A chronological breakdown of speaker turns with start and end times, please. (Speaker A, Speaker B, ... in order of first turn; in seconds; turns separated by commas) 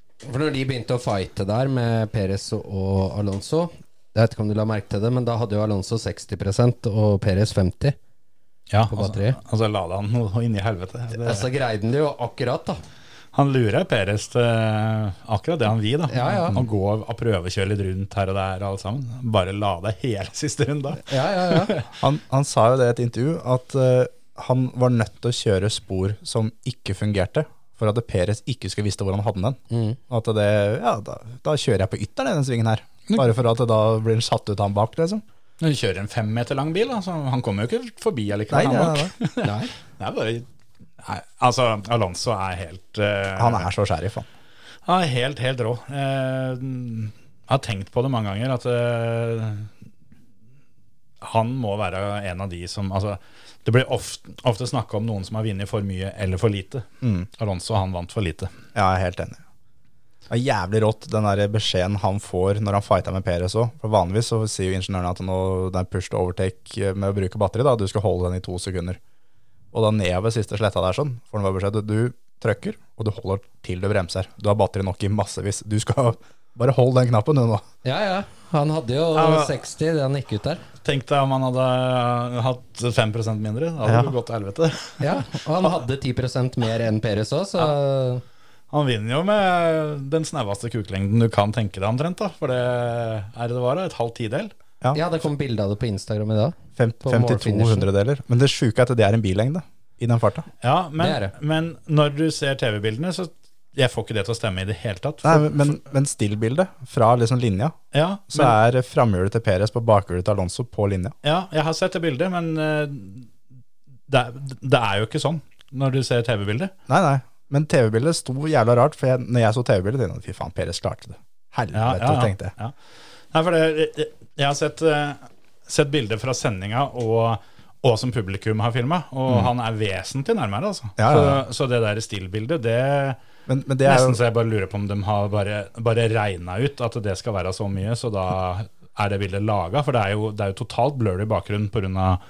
Speaker A: 0.2-8.0, Speaker B: 8.7-11.4, Speaker A: 8.9-9.4, Speaker A: 11.1-12.8, Speaker B: 13.3-21.9, Speaker A: 16.1-16.6, Speaker A: 21.1-21.8, Speaker C: 22.0-35.2, Speaker A: 29.7-30.0, Speaker B: 35.6-40.5, Speaker C: 38.5-39.1, Speaker A: 39.4-39.7, Speaker B: 41.0-43.7, Speaker C: 43.4-44.3, Speaker B: 44.9-49.7, Speaker B: 51.2-56.9, Speaker C: 57.0-57.3, Speaker B: 57.4-58.5, Speaker C: 58.7-59.4, Speaker C: 60.3-69.0, Speaker C: 69.7-77.6, Speaker A: 77.8-80.6, Speaker B: 79.1-79.5, Speaker B: 80.8-85.3, Speaker C: 83.8-84.1, Speaker A: 85.0-88.2, Speaker B: 88.7-94.5, Speaker A: 94.9-97.9, Speaker C: 96.8-100.5, Speaker B: 100.6-105.8, Speaker A: 101.0-101.3, Speaker C: 105.2-107.8, Speaker B: 107.9-108.5, Speaker C: 108.3-111.1, Speaker B: 111.2-113.3, Speaker B: 114.1-116.7, Speaker C: 116.9-122.5, Speaker B: 121.7-122.7, Speaker B: 123.3-133.2, Speaker C: 131.0-131.4, Speaker C: 133.5-134.2, Speaker B: 133.8-142.2